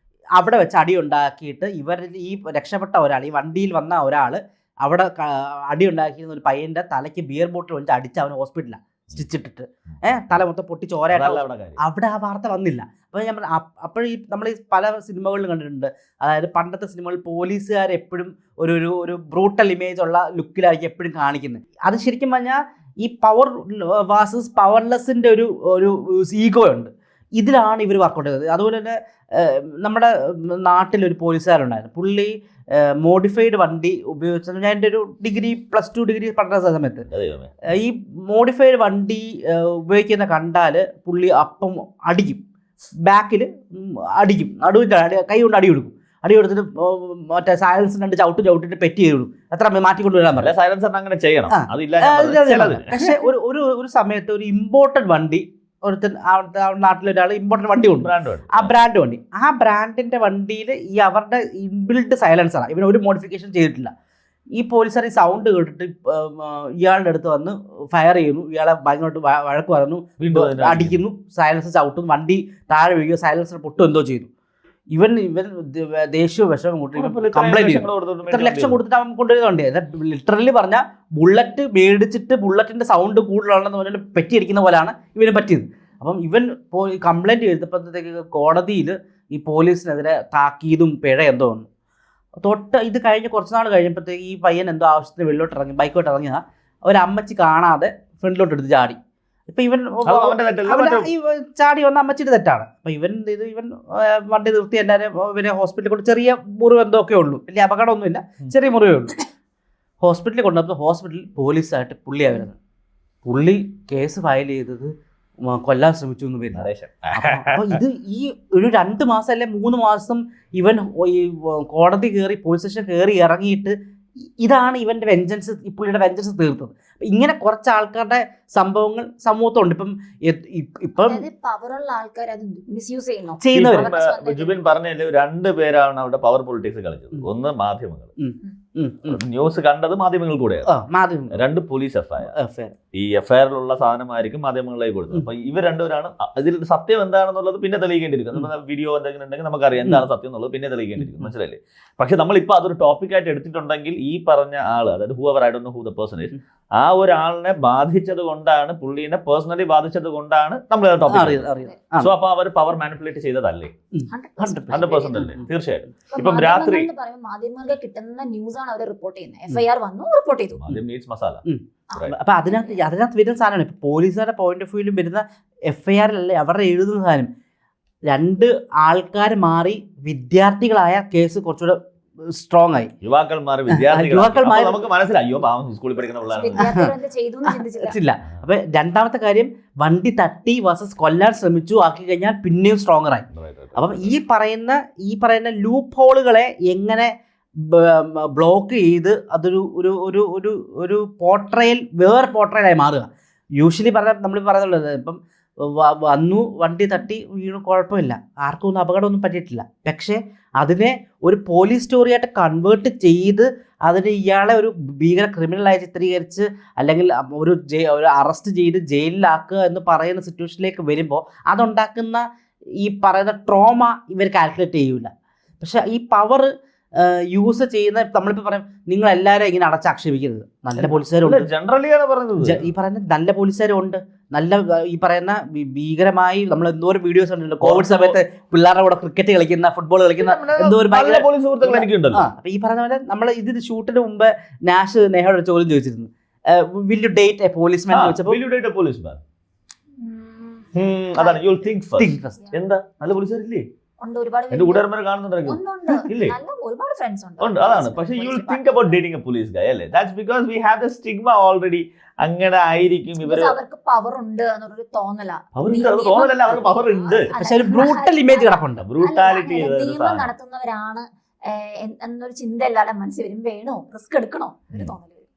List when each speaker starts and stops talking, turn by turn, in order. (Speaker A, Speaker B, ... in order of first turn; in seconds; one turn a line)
Speaker A: 0.4-37.1
Speaker B: 9.9-10.4
Speaker B: 11.1-11.8
Speaker B: 37.1-37.6
Speaker A: 37.7-42.4
Speaker A: 43.0-50.5
Speaker B: 50.4-52.9
Speaker A: 51.5-63.9
Speaker B: 58.0-58.7
Speaker A: 64.5-74.3
Speaker B: 70.2-71.0
Speaker A: 74.9-91.7
Speaker B: 77.0-78.8
Speaker A: 92.4-109.2
Speaker B: 100.0-101.1
Speaker A: 110.0-112.6
Speaker A: 113.2-123.8
Speaker B: 116.5-117.8
Speaker A: 124.4-131.2
Speaker C: 131.1-134.7
Speaker A: 133.4-133.9
Speaker B: 133.5-138.1
Speaker A: 138.2-139.2
Speaker B: 139.1-140.7
Speaker A: 140.7-141.4
Speaker B: 141.3-142.3
Speaker A: 142.3-142.8
Speaker B: 142.9-161.5
Speaker A: 151.0-151.3
Speaker A: 161.1-162.1
Speaker B: 162.0-163.7
Speaker A: 163.9-165.5
Speaker C: 164.1-165.4
Speaker B: 164.7-166.9
Speaker C: 166.1-170.6
Speaker B: 170.6-172.2
Speaker A: 171.5-177.3
Speaker C: 171.9-172.8
Speaker A: 178.1-181.8
Speaker A: 182.3-182.9
Speaker B: 183.0-186.8
Speaker A: 183.7-184.8
Speaker C: 186.3-188.0
Speaker A: 186.6-186.9
Speaker A: 187.5-222.2
Speaker B: 193.3-194.1
Speaker A: 222.8-231.5
Speaker B: 230.8-232.7
Speaker A: 232.4-248.4
Speaker B: 237.6-238.2
Speaker B: 240.2-242.3
Speaker B: 247.9-249.2
Speaker C: 250.0-251.7
Speaker B: 250.8-253.7
Speaker A: 252.0-252.4
Speaker C: 254.0-254.8
Speaker B: 254.5-256.4
Speaker C: 255.4-259.0
Speaker B: 257.4-263.6
Speaker C: 263.2-275.3
Speaker B: 265.6-267.3
Speaker A: 267.3-268.9
Speaker B: 268.8-270.3